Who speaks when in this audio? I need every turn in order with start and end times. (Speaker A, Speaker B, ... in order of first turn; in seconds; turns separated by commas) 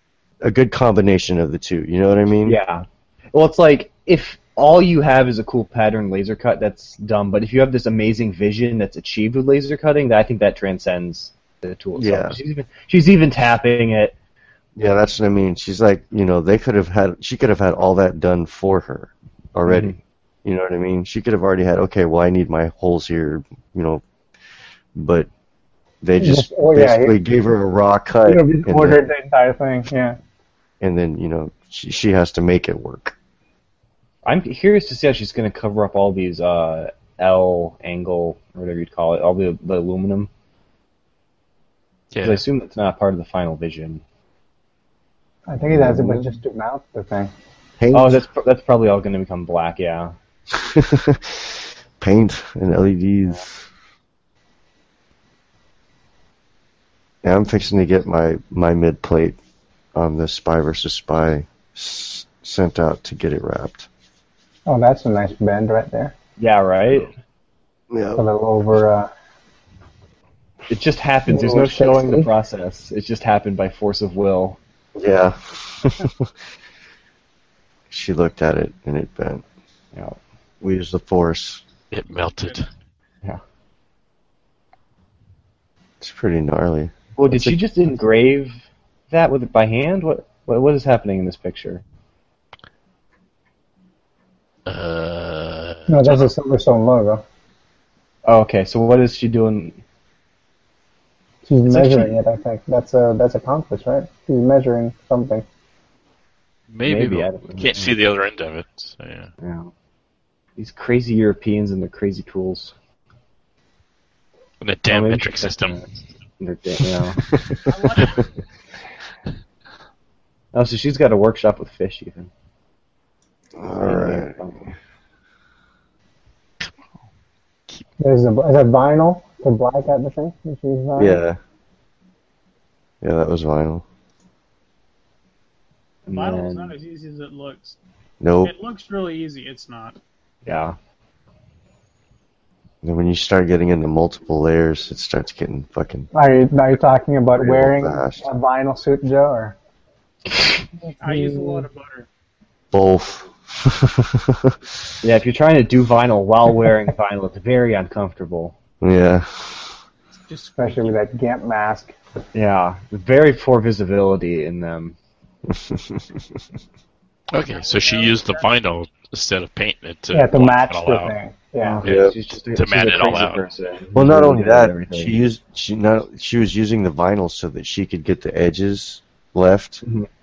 Speaker A: 0.4-2.6, Speaker B: 2.4-14.2, Speaker A: 12.0-12.4, Speaker A: 14.8-24.0, Speaker B: 19.7-20.0, Speaker A: 24.9-25.3, Speaker A: 26.0-29.0, Speaker C: 26.2-27.1, Speaker C: 28.2-30.2, Speaker A: 30.8-33.2, Speaker B: 34.2-40.3, Speaker D: 42.1-42.4, Speaker B: 42.2-44.0, Speaker C: 45.5-47.3, Speaker A: 45.7-46.3, Speaker A: 47.8-48.2, Speaker B: 47.9-50.1, Speaker A: 50.5-53.6, Speaker A: 57.2-59.4, Speaker A: 59.9-63.9, Speaker C: 64.7-66.2, Speaker B: 66.4-67.1, Speaker A: 67.9-68.3, Speaker C: 68.2-69.1, Speaker B: 70.7-74.6, Speaker C: 71.3-72.3, Speaker A: 75.0-76.3, Speaker A: 77.9-79.4, Speaker B: 79.9-80.2, Speaker A: 80.6-81.6, Speaker D: 81.9-82.7, Speaker A: 86.0-87.6, Speaker B: 87.2-88.5, Speaker B: 89.1-91.8, Speaker D: 94.7-96.3, Speaker C: 95.9-97.2, Speaker B: 98.2-99.8, Speaker C: 101.5-105.5, Speaker B: 101.7-102.2, Speaker D: 106.7-109.3, Speaker B: 106.8-107.9, Speaker B: 109.4-109.7, Speaker B: 110.6-112.7, Speaker D: 114.6-115.8, Speaker B: 114.9-115.9, Speaker B: 116.4-117.2, Speaker A: 117.3-117.7, Speaker E: 117.7-118.3, Speaker B: 120.5-122.3, Speaker A: 123.6-124.4, Speaker B: 123.7-124.7, Speaker C: 128.0-131.2, Speaker A: 131.0-131.4, Speaker A: 133.0-133.8, Speaker B: 136.1-136.8, Speaker E: 136.1-137.8, Speaker A: 138.2-138.5, Speaker E: 138.4-140.0, Speaker B: 140.4-140.8, Speaker A: 142.8-146.1, Speaker C: 146.1-149.6, Speaker A: 147.4-148.2, Speaker C: 150.8-151.7, Speaker E: 151.0-152.1, Speaker A: 152.7-154.6, Speaker B: 155.0-158.6, Speaker A: 158.8-159.8, Speaker E: 160.3-160.9, Speaker C: 160.6-161.9, Speaker B: 162.3-165.0, Speaker A: 165.5-166.2, Speaker D: 167.3-171.1, Speaker E: 167.5-168.5, Speaker C: 170.1-171.8, Speaker B: 171.6-175.2, Speaker A: 171.8-172.1, Speaker D: 171.8-173.4, Speaker A: 173.9-179.8, Speaker B: 179.8-180.1